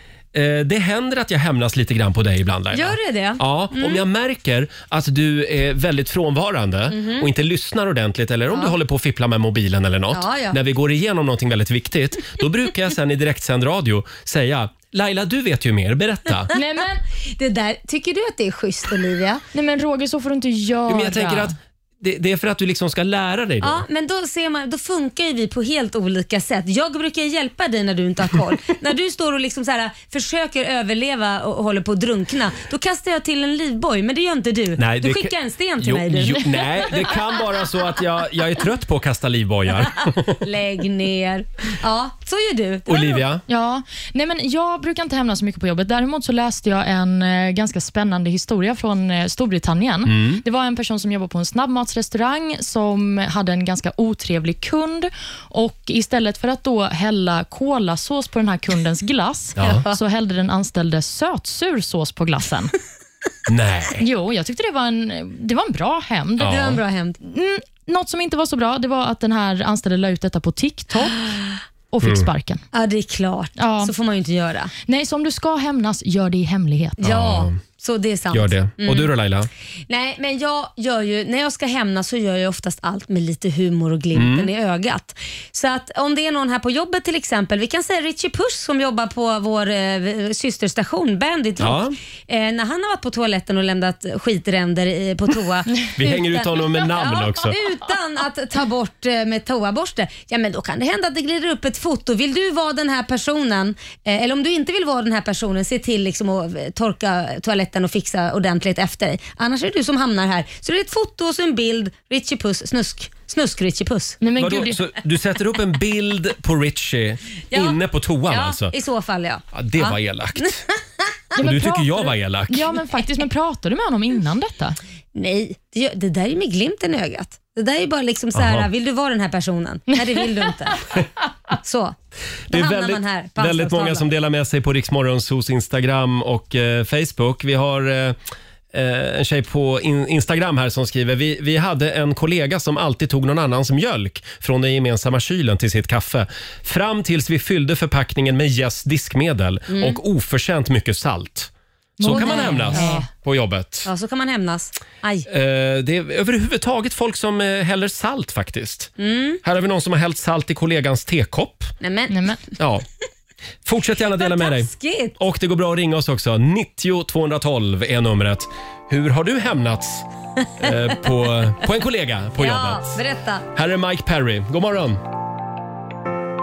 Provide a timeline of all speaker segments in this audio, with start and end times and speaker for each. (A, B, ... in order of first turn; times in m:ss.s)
0:00.3-0:16.5 A
0:02.7-0:04.0 B
0:06.9-0:07.3 B
0:10.1-0:10.6 B
0:16.5-0:17.0 C
0:17.2-0:19.4 B
0:19.5-0:21.5 C
0:20.9-0:23.8 A
0:23.6-0:36.4 B
0:34.8-0:40.4 A
0:40.4-0:43.2 B
0:42.9-0:43.4 A
0:43.5-1:02.7 C
0:50.0-0:50.4 A
0:59.6-0:59.8 A
0:59.6-0:59.9 B
1:03.5-1:04.0 A
1:04.0-1:11.2 C
1:06.4-1:06.8 A
1:06.4-1:07.2 B
1:11.2-1:11.6 B
1:11.9-1:12.6 C
1:12.0-1:12.3 A
1:12.7-1:14.7 B
1:13.6-1:13.9 C
1:14.9-1:17.0 C
1:17.0-1:19.1 B
1:17.0-1:17.6 A
1:18.3-1:19.5 A
1:19.9-1:54.2 B
1:24.1-1:24.5 A
1:31.6-1:32.0 A
1:36.0-1:37.6 A
1:54.2-1:54.8 C
1:54.4-1:58.7 A
1:57.5-2:00.6 B
1:59.5-2:00.6 A
2:01.4-2:04.8 C
2:01.4-2:02.7 A
2:05.1-2:10.9 B
2:08.3-2:08.7 A
2:11.6-2:12.0 B
2:12.5-2:14.0 B
2:12.5-2:18.2 A
2:18.7-2:33.9 A
2:29.7-2:30.0 B
2:32.0-2:33.1 C
2:32.1-2:33.0 B
2:33.9-2:35.3 B
2:35.3-2:41.7 A
2:39.0-2:39.4 B
2:41.8-2:42.5 B
2:42.1-2:42.4 C
2:42.6-2:42.9 A
2:43.6-2:50.0 A
2:44.0-2:45.2 B
2:50.6-2:53.0 A
2:52.4-2:53.4 B
2:53.6-2:55.0 A